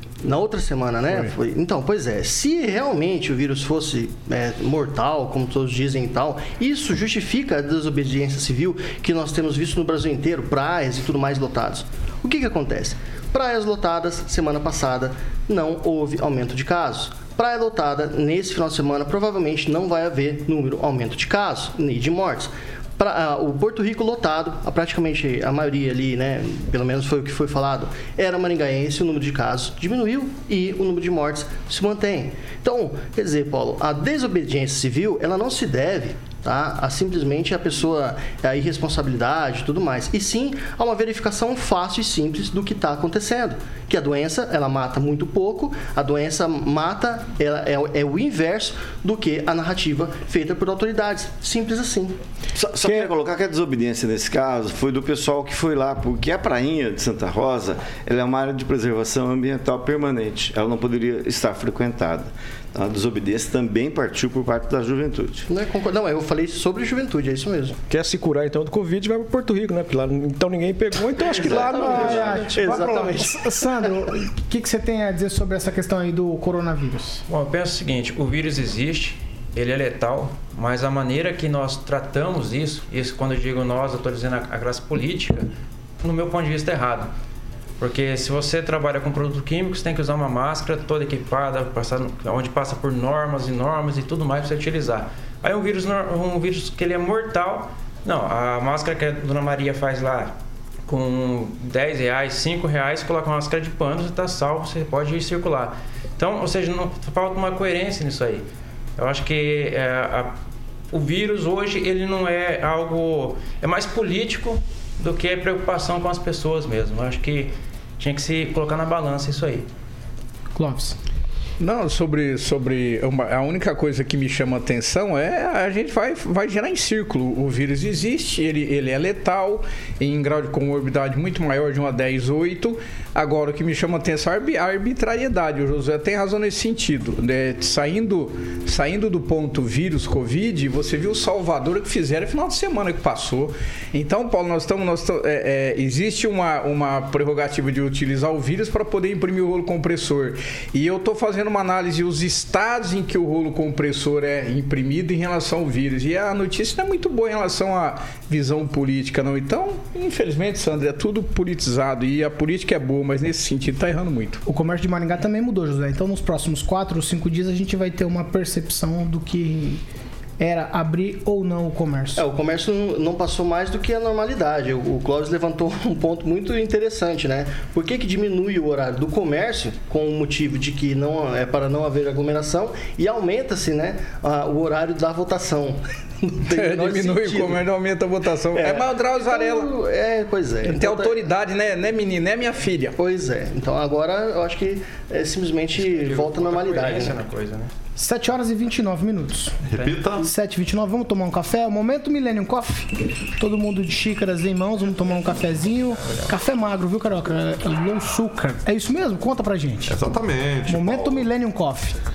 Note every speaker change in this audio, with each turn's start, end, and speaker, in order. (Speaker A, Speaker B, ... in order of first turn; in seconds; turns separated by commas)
Speaker A: 0.2-52.2, Speaker B: 52.5-65.5, Speaker C: 52.8-53.1, Speaker A: 65.5-67.8, Speaker C: 67.9-72.7, Speaker A: 71.4-73.4, Speaker B: 71.5-72.0, Speaker D: 71.6-77.2, Speaker E: 77.3-85.5, Speaker E: 86.0-87.1, Speaker E: 87.8-100.3, Speaker E: 100.9-108.5, Speaker E: 109.0-110.3, Speaker E: 110.9-119.7, Speaker D: 120.5-121.0, Speaker F: 121.6-164.4, Speaker D: 164.4-169.8, Speaker D: 170.4-172.2, Speaker A: 172.2-187.6, Speaker F: 186.5-189.7, Speaker A: 188.5-191.3, Speaker F: 190.6-192.9, Speaker A: 193.0-197.2, Speaker E: 195.8-197.7, Speaker D: 198.0-199.6, Speaker G: 199.7-200.3, Speaker E: 199.7-200.0, Speaker D: 200.2-210.0, Speaker G: 209.9-211.3, Speaker D: 210.7-211.9